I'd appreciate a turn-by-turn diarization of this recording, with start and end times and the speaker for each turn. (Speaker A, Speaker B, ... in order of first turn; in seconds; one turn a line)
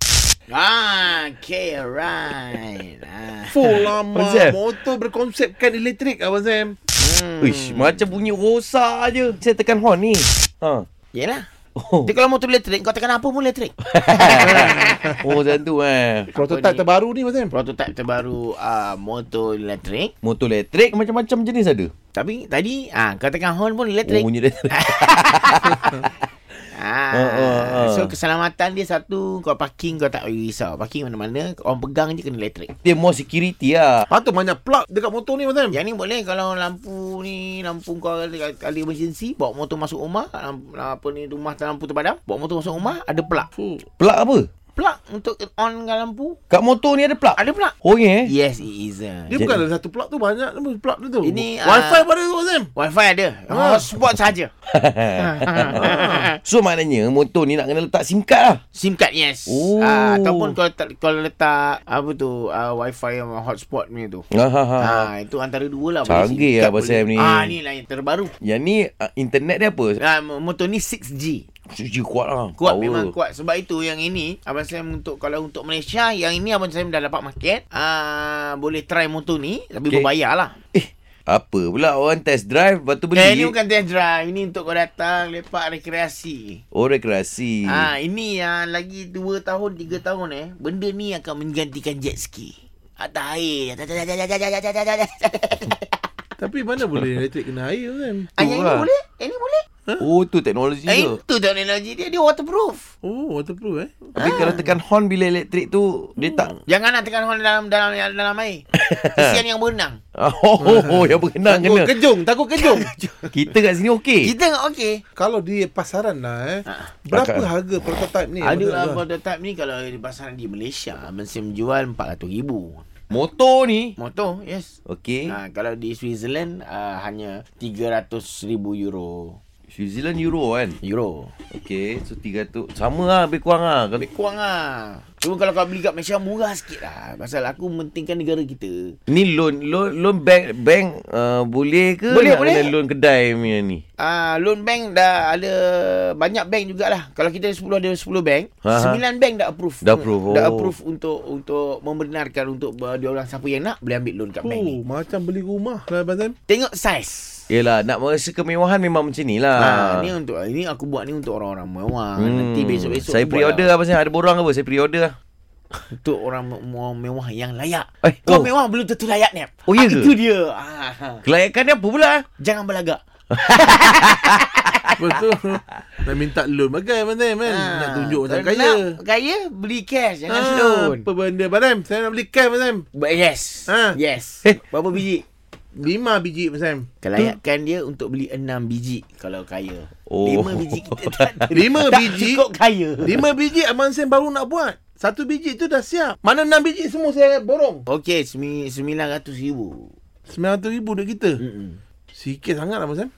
Speaker A: 0.5-3.7
Speaker B: 3.5-6.8
Speaker C: 4.1-4.6
Speaker A: 7.0-8.0
Speaker C: 7.4-10.8
Speaker A: 11.1-11.4
Speaker C: 11.8-12.1
Speaker A: 12.0-15.2
Speaker C: 13.9-16.3
Speaker B: 14.2-15.2
Speaker A: 16.3-16.8
Speaker B: 16.3-17.5
Speaker A: 17.5-20.1
Speaker C: 20.2-21.9
Speaker A: 22.1-26.0
Speaker C: 24.0-26.1
Speaker A: 26.7-32.7
Speaker C: 27.1-28.1
Speaker C: 32.8-34.1
Speaker B: 34.1-35.8
Speaker A: 35.7-43.5
Speaker C: 43.8-44.5
Speaker A: 44.8-46.4
Speaker C: 46.5-48.3
Speaker A: 47.4-49.4
Speaker B: 49.3-52.7
Speaker A: 51.2-52.1
Speaker A: 52.7-54.5
Speaker B: 53.5-53.9
Speaker C: 54.7-58.6
Speaker A: 55.1-56.4
Speaker A: 58.7-64.2
Speaker C: 59.5-60.5
Speaker C: 64.3-65.1
Speaker A: 64.8-68.3
Speaker C: 66.0-67.5
Speaker C: 68.4-70.0
Speaker A: 70.0-71.4
Speaker C: 71.7-73.1
Speaker A: 72.6-80.6
Speaker C: 80.7-83.5
Speaker A: 83.1-86.6
Speaker C: 86.7-87.9
Speaker A: 87.7-96.0
Speaker B: 96.4-98.3
Speaker A: 98.3-99.6
Speaker C: 98.4-98.9
Speaker C: 100.0-101.2
Speaker A: 100.8-102.9
Speaker B: 103.0-104.4
Speaker A: 104.2-104.6
Speaker C: 104.2-106.6
Speaker A: 106.2-110.0
Speaker C: 108.8-109.4
Speaker C: 110.2-112.0
Speaker B: 110.6-112.9
Speaker A: 112.6-113.3
Speaker C: 113.3-114.3
Speaker A: 114.2-115.0
Speaker B: 115.2-119.0
Speaker A: 116.7-117.0
Speaker C: 117.1-117.5
Speaker A: 118.4-122.9
Speaker C: 123.1-124.0
Speaker A: 124.0-124.7
Speaker C: 124.9-125.3
Speaker A: 125.3-129.4
Speaker C: 129.7-130.8
Speaker A: 130.8-131.3
Speaker C: 131.5-134.1
Speaker A: 134.0-139.0
Speaker C: 139.1-143.8
Speaker A: 142.1-142.7
Speaker A: 144.0-154.8
Speaker C: 148.6-149.0
Speaker C: 149.8-150.7
Speaker B: 154.4-156.3
Speaker A: 156.5-157.5
Speaker C: 157.5-160.1
Speaker A: 159.6-163.7
Speaker C: 162.2-165.1
Speaker A: 165.9-171.2
Speaker C: 168.0-168.5
Speaker C: 169.7-170.1
Speaker C: 171.2-172.2
Speaker A: 172.4-174.3
Speaker C: 173.4-174.4
Speaker B: 175.0-178.9
Speaker A: 177.4-181.1
Speaker B: 180.3-182.8
Speaker A: 182.9-185.2
Speaker B: 183.7-184.0
Speaker B: 185.7-186.9
Speaker A: 187.0-193.3
Speaker C: 190.1-191.6
Speaker B: 191.5-192.4
Speaker B: 193.0-197.8
Speaker A: 197.9-199.9
Speaker B: 200.3-201.4
Speaker A: 201.4-201.8
Speaker B: 202.1-203.1